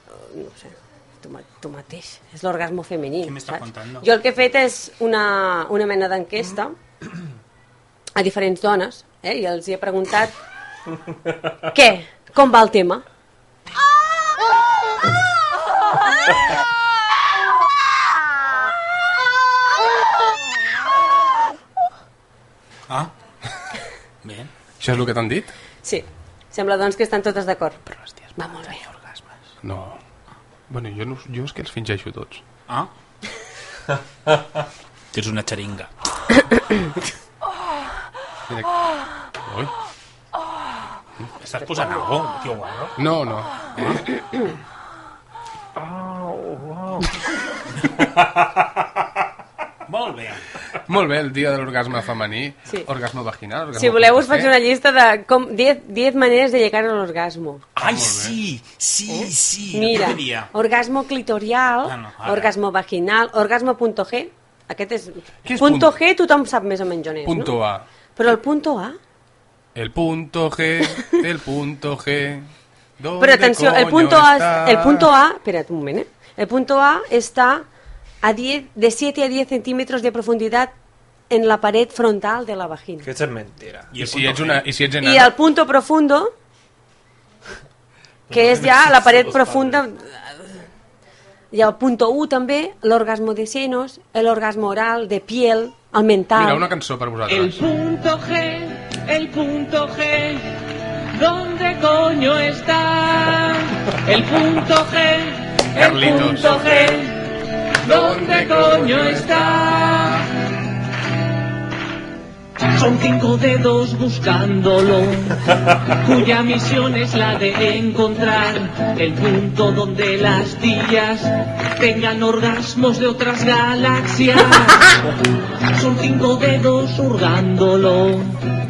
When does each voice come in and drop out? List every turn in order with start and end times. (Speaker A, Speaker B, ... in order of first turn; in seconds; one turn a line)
Speaker A: 0.1-6.7
Speaker B: 3.2-4.1
Speaker A: 8.2-10.3
Speaker A: 11.7-13.0
Speaker B: 24.2-24.5
Speaker C: 24.8-25.5
Speaker A: 25.8-27.8
Speaker B: 27.9-29.3
Speaker A: 28.4-28.8
Speaker C: 29.6-30.0
Speaker C: 30.7-32.4
Speaker B: 35.1-35.9
Speaker C: 39.4-39.7
Speaker B: 41.4-42.9
Speaker C: 43.0-44.0
Speaker B: 49.9-50.4
Speaker C: 50.9-54.5
Speaker A: 53.7-57.6
Speaker B: 57.8-60.5
Speaker C: 57.8-58.4
Speaker A: 59.1-67.5
Speaker B: 61.8-62.5
Speaker C: 65.4-65.9
Speaker C: 67.2-67.8
Speaker A: 68.2-69.0
Speaker C: 69.7-72.5
Speaker C: 73.0-75.1
Speaker A: 73.2-77.7
Speaker A: 78.2-80.7
Speaker A: 81.3-83.1
Speaker D: 83.0-83.9
Speaker B: 83.9-84.6
Speaker C: 83.9-85.3
Speaker A: 85.0-86.3
Speaker D: 88.3-89.8
Speaker A: 88.3-90.5
Speaker A: 91.5-96.7
Speaker C: 96.3-97.6
Speaker E: 97.3-100.4
Speaker E: 101.1-107.2
Speaker C: 105.7-107.0
Speaker E: 107.8-110.2
Speaker C: 107.8-110.3
Speaker E: 112.7-115.4
Speaker E: 116.0-124.9
Speaker E: 125.7-128.4